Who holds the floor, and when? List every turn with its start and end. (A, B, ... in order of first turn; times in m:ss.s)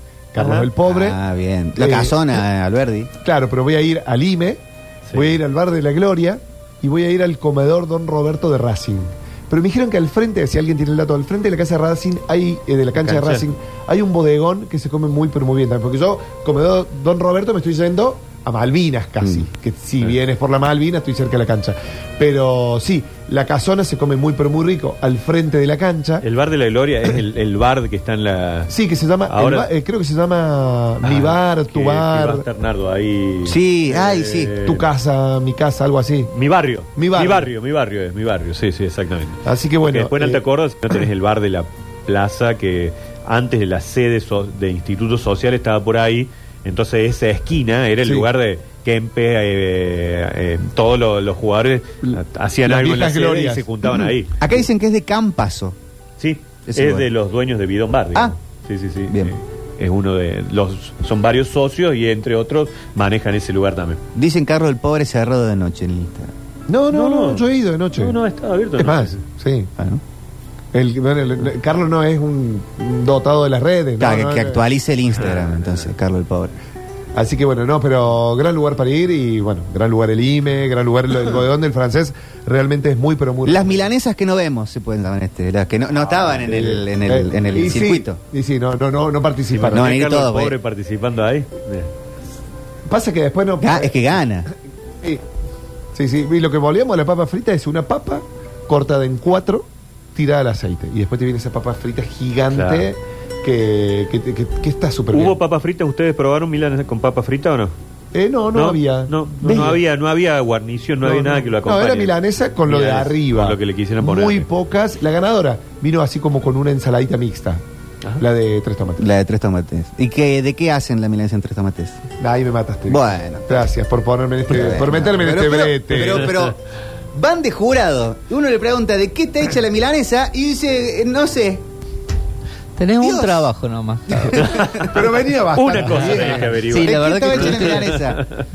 0:00.3-0:01.2 A
0:00.4-0:00.7 B
0:00.8-0:03.1 C
0:01.8-0:02.4 A
0:03.2-0:04.6 A
0:05.1-0:26.2 A
0:13.0-0:13.4 B
0:26.2-0:28.7 B
0:28.7-0:32.4 A
0:29.3-0:29.7 B
0:31.0-0:34.8 B
0:33.4-0:34.6 C
0:34.6-0:36.3 A
0:36.3-0:54.4 B
0:37.0-0:37.5 A
0:39.4-0:40.4 A
0:48.0-0:48.3 A
0:52.0-0:53.6 A
0:54.4-0:55.8 C
0:56.2-1:04.0 B
0:56.6-0:57.1 C
0:59.1-0:59.3 C
1:04.1-1:06.3 C
1:06.7-1:08.2 A
1:06.9-1:07.4 B
1:08.0-1:09.2 B
1:08.8-1:09.7 A
1:10.7-1:14.7 A
1:14.0-1:16.5 C
1:15.2-1:15.8 B
1:17.1-1:23.9 A
1:23.4-1:28.2 C
1:26.4-1:30.0 A
1:29.5-1:31.9 B
1:29.7-1:30.5 C
1:32.9-1:34.5 A
1:33.6-1:34.5 C
1:35.9-1:45.4 A
1:42.5-1:42.9 B
1:45.1-1:47.7 B
1:48.1-1:49.8 A
1:48.5-1:52.1 B
1:51.0-1:57.6 A
1:52.7-1:54.4 B
1:58.2-1:59.0 A
1:59.0-2:02.0 C
2:02.2-2:06.3 A
2:02.9-2:03.7 C
2:04.5-2:06.6 C
2:06.0-2:06.4 B
2:07.1-2:11.6 C
2:12.8-2:14.2 D
2:13.0-2:13.5 C
2:14.1-2:14.8 C
2:14.1-2:16.6 A
2:14.4-2:18.4 B
2:16.6-2:18.2 C
2:16.6-2:17.9 D